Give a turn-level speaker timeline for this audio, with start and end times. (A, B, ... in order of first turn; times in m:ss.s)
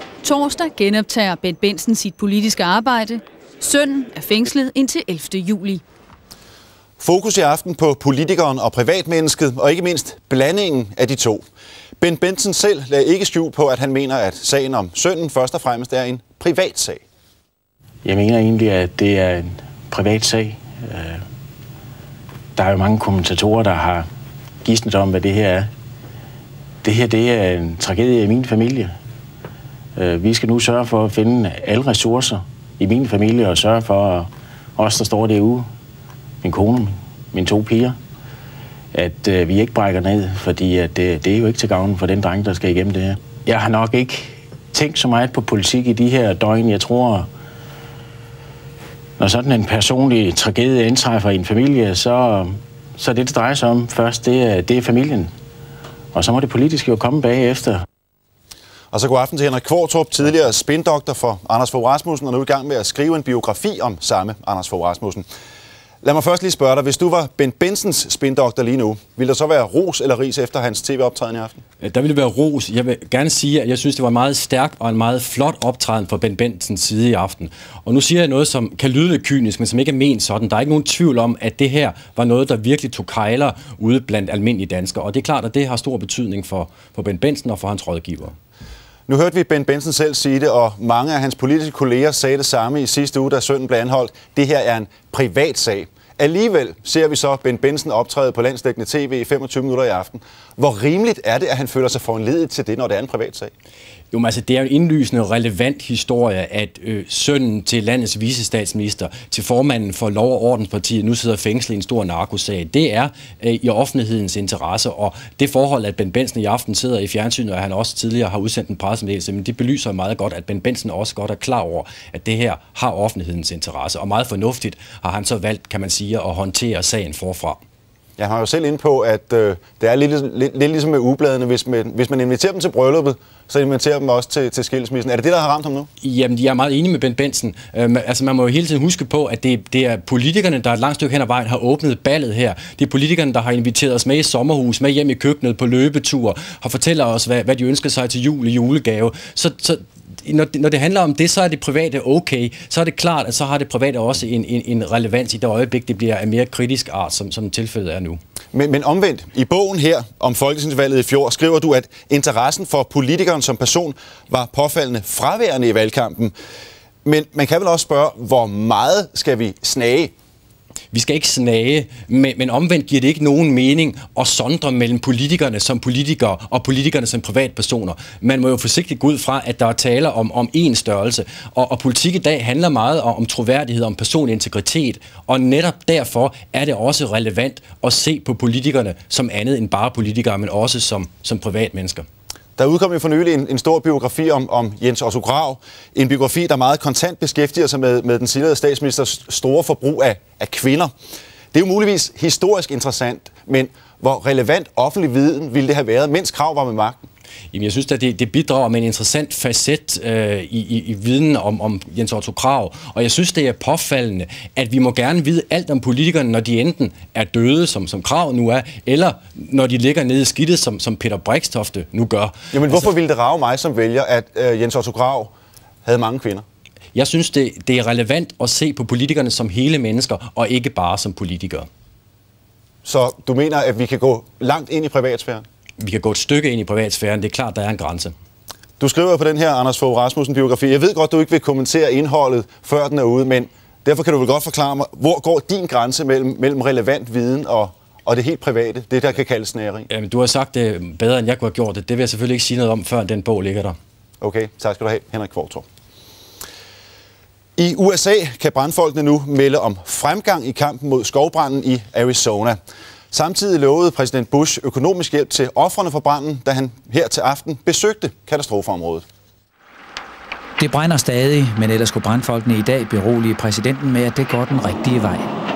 0:00.2-0:05.8 A
0:07.0-0:11.4 B
0:12.0-0:17.0 B
0:18.0-0:21.2 C
0:22.6-0:24.1 C
0:24.6-0:25.7 C
0:26.8-0:29.0 C
0:30.0-0:35.7 C
0:36.4-0:38.0 C
0:38.9-0:47.3 C
0:49.2-0:55.3 C
0:56.1-0:57.8 C
0:58.9-1:05.2 B
1:06.0-1:11.6 B
1:11.8-1:28.3 D
1:29.1-1:43.5 B
1:44.1-2:07.6 D
2:08.2-2:15.9 B
2:16.0-2:38.2 D
2:38.5-2:46.3 B
2:47.0-2:50.1 B
2:50.9-3:12.0 D
3:12.6-3:20.9 B
3:21.5-3:27.0 B
3:27.5-3:42.9 D
3:42.5-3:45.3 B
3:45.8-3:46.4 B
3:46.9-3:51.7 D
3:52.8-3:55.4 B
3:55.8-3:58.1 D
3:58.8-4:09.9 B
4:09.9-4:13.8 D
4:14.2-4:15.6 B
4:17.6-4:22.6 B
4:23.1-4:29.0 B
4:30.6-4:35.2 E